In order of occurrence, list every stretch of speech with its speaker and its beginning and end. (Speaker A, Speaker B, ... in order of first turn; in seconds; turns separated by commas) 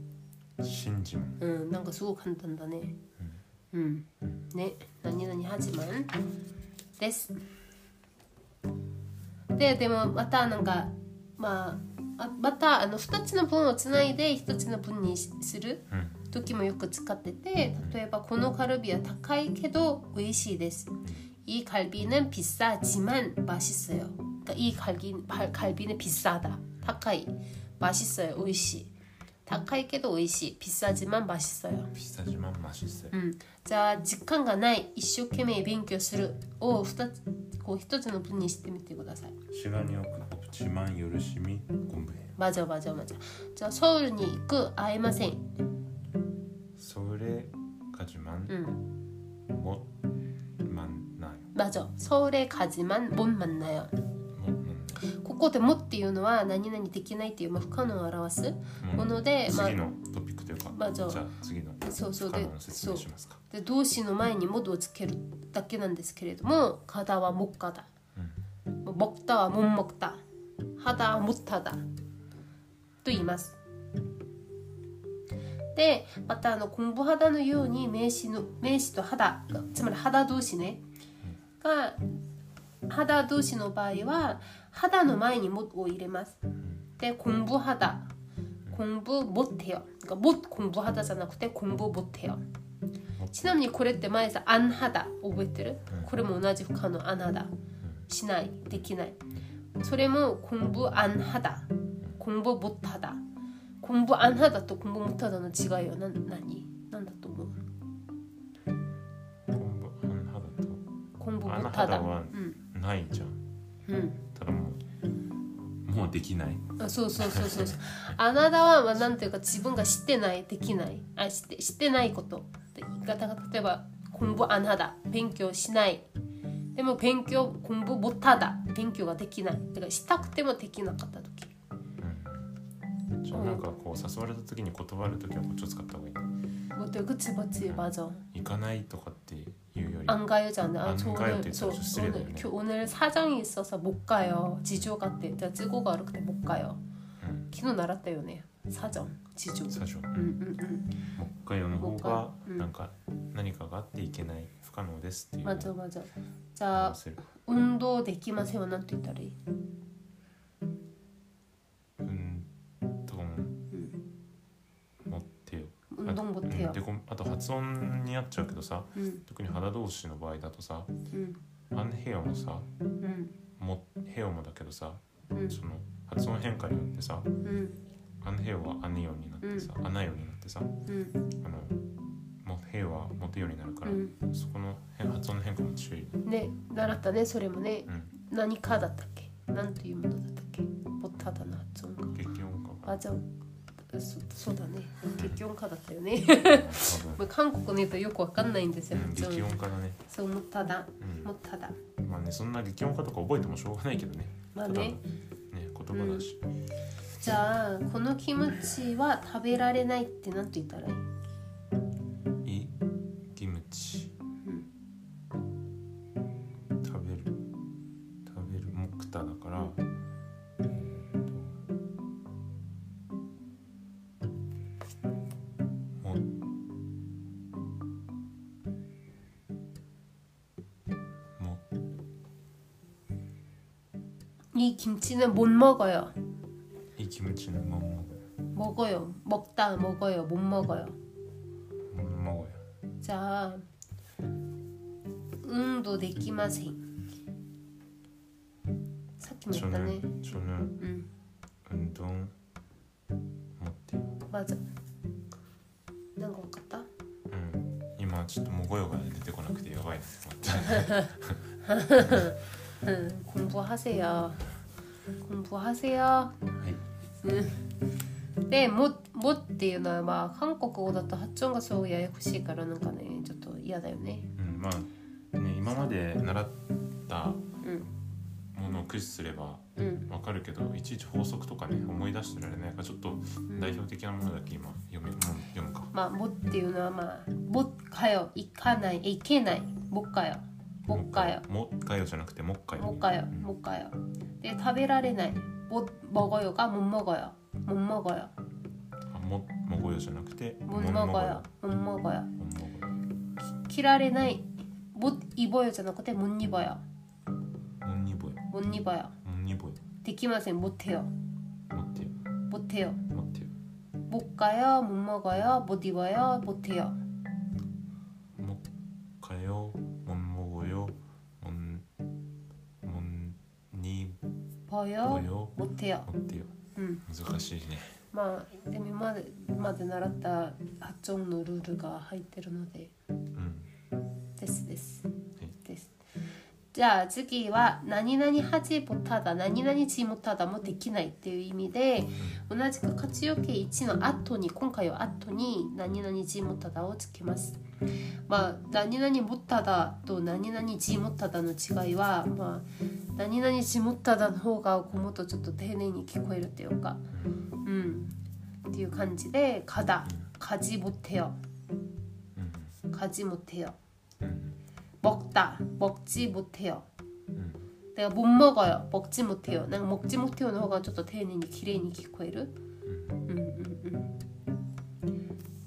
Speaker A: 0.6-1.4, Speaker B: 1.4-3.0, Speaker B: 3.7-6.1, Speaker B: 7.0-7.4, Speaker B: 9.5-28.9, Speaker A: 15.9-16.2, Speaker B: 29.5-31.9, Speaker A: 31.9-33.1, Speaker B: 33.1-39.4, Speaker A: 39.5-42.3, Speaker B: 42.4-45.5, Speaker A: 46.8-48.6, Speaker B: 48.5-48.8, Speaker A: 49.5-49.9, Speaker A: 50.6-51.5, Speaker B: 51.5-53.9, Speaker A: 54.3-55.1, Speaker B: 55.0-59.8, Speaker A: 58.8-63.4, Speaker B: 60.7-61.2, Speaker B: 61.8-67.9, Speaker A: 68.2-68.4, Speaker B: 68.8-70.2, Speaker B: 70.8-71.8, Speaker B: 73.0-73.6, Speaker B: 75.8-80.8, Speaker B: 81.6-82.2, Speaker B: 82.9-86.4, Speaker B: 87.0-88.1, Speaker B: 88.7-92.4, Speaker B: 93.3-97.5, Speaker B: 98.1-99.2, Speaker B: 99.8-103.2, Speaker B: 103.8-107.6, Speaker A: 109.5-110.8, Speaker B: 111.2-112.6, Speaker A: 111.4-113.5, Speaker B: 113.9-114.2, Speaker A: 114.3-114.8, Speaker A: 115.8-117.8, Speaker B: 116.8-126.0, Speaker B: 126.7-131.5, Speaker A: 132.0-132.5, Speaker A: 133.2-136.3, Speaker B: 133.3-133.6, Speaker B: 136.7-138.2, Speaker A: 137.6-140.2, Speaker B: 140.1-146.8, Speaker A: 140.8-142.5, Speaker A: 147.2-147.5, Speaker B: 147.5-151.1, Speaker A: 149.7-150.4, Speaker A: 151.2-155.7, Speaker B: 151.8-152.7, Speaker B: 155.4-159.4, Speaker A: 156.7-157.2, Speaker A: 162.0-162.5, Speaker A: 163.1-163.7, Speaker B: 163.7-164.0, Speaker A: 165.1-170.9, Speaker B: 165.9-166.8, Speaker B: 169.0-169.2, Speaker B: 171.1-171.4, Speaker A: 171.7-172.7, Speaker B: 173.0-173.3, Speaker A: 173.6-177.3, Speaker B: 175.3-175.6, Speaker B: 177.4-177.8, Speaker A: 178.2-180.8, Speaker B: 179.4-179.7, Speaker B: 180.9-181.2, Speaker A: 181.4-181.8, Speaker A: 182.4-186.2, Speaker B: 183.8-184.2, Speaker B: 186.2-192.2, Speaker A: 187.9-188.1, Speaker A: 192.2-193.0, Speaker B: 192.8-193.3, Speaker B: 193.9-201.8, Speaker A: 196.3-197.2, Speaker A: 198.9-200.0, Speaker A: 201.0-201.3, Speaker A: 202.0-206.4, Speaker B: 204.5-205.0, Speaker B: 205.9-206.3, Speaker B: 207.2-211.0, Speaker A: 212.4-212.8, Speaker A: 213.3-214.1, Speaker A: 216.8-217.4, Speaker A: 218.2-219.8, Speaker A: 220.6-221.6, Speaker A: 226.0-226.3, Speaker A: 231.4-231.6, Speaker B: 234.5-236.2, Speaker A: 237.0-238.3, Speaker B: 238.5-241.0, Speaker A: 241.9-242.6, Speaker B: 243.0-243.6, Speaker B: 245.4-246.8, Speaker B: 249.2-250.1, Speaker A: 249.5-250.8, Speaker B: 250.8-251.1, Speaker A: 251.7-252.3, Speaker A: 253.6-254.2, Speaker B: 254.3-254.6, Speaker B: 256.2-256.9, Speaker A: 257.3-261.4, Speaker B: 260.6-261.1, Speaker B: 261.6-264.5, Speaker B: 265.2-266.5, Speaker A: 266.6-266.8, Speaker B: 267.2-267.6, Speaker B: 268.5-274.3, Speaker A: 274.4-277.4, Speaker B: 277.6-277.9, Speaker A: 278.5-285.9, Speaker B: 279.8-280.1, Speaker B: 283.5-283.8, Speaker B: 285.9-291.4, Speaker A: 290.9-293.5, Speaker B: 292.8-298.3, Speaker A: 299.1-301.4, Speaker B: 300.6-302.3, Speaker A: 302.4-303.0, Speaker B: 303.4-306.8, Speaker A: 307.8-308.4, Speaker B: 308.5-309.1, Speaker A: 309.2-309.8, Speaker B: 310.0-311.1, Speaker A: 311.7-312.1, Speaker B: 312.5-313.0, Speaker A: 313.1-313.5, Speaker B: 314.1-317.0, Speaker A: 318.3-318.6, Speaker A: 319.2-321.9, Speaker A: 322.8-324.2, Speaker B: 324.7-326.1, Speaker A: 325.0-326.5, Speaker B: 326.8-327.0, Speaker A: 327.1-328.0, Speaker B: 328.1-332.9, Speaker A: 333.4-333.7, Speaker B: 334.4-335.1, Speaker B: 335.6-335.9, Speaker B: 336.7-347.6, Speaker B: 348.3-357.1, Speaker A: 357.1-357.4, Speaker B: 357.6-358.2, Speaker B: 358.7-361.4, Speaker A: 362.4-362.8, Speaker B: 362.9-363.8, Speaker A: 364.2-364.6, Speaker B: 365.0-366.9, Speaker A: 367.3-367.7, Speaker B: 367.9-372.5, Speaker A: 372.9-373.2, Speaker B: 373.2-374.1